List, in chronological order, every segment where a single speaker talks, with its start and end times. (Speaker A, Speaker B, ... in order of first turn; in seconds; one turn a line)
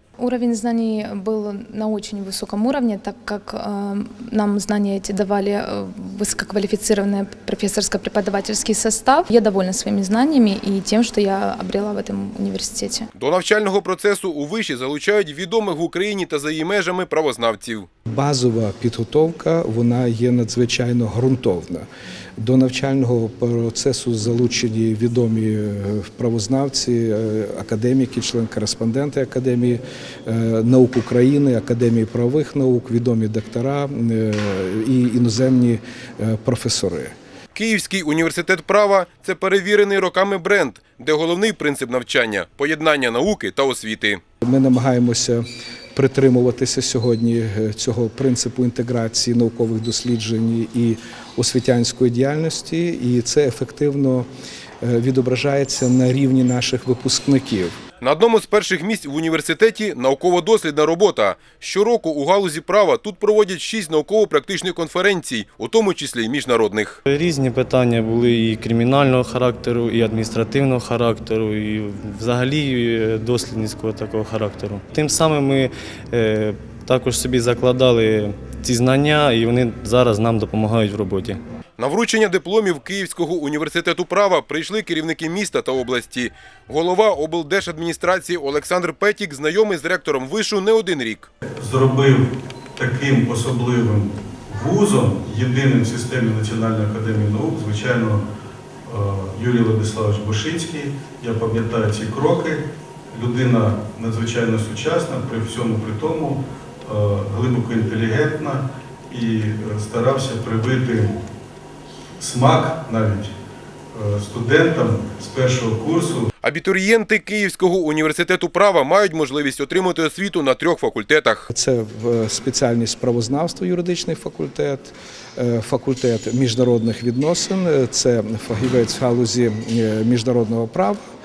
Speaker A: 0.2-13.1
Speaker B: 13.1-17.9
Speaker C: 18.1-21.9
Speaker C: 22.4-37.1
Speaker B: 37.5-44.2
Speaker C: 44.4-45.4
Speaker C: 45.9-54.3
Speaker C: 54.8-57.8
Speaker B: 58.0-67.0
Speaker D: 67.0-81.4
Speaker B: 81.8-91.3
Speaker E: 91.6-98.2
Speaker E: 98.8-111.2
Speaker E: 112.2-113.3
Speaker E: 113.9-116.3
Speaker B: 116.4-121.5
Speaker C: 121.5-131.0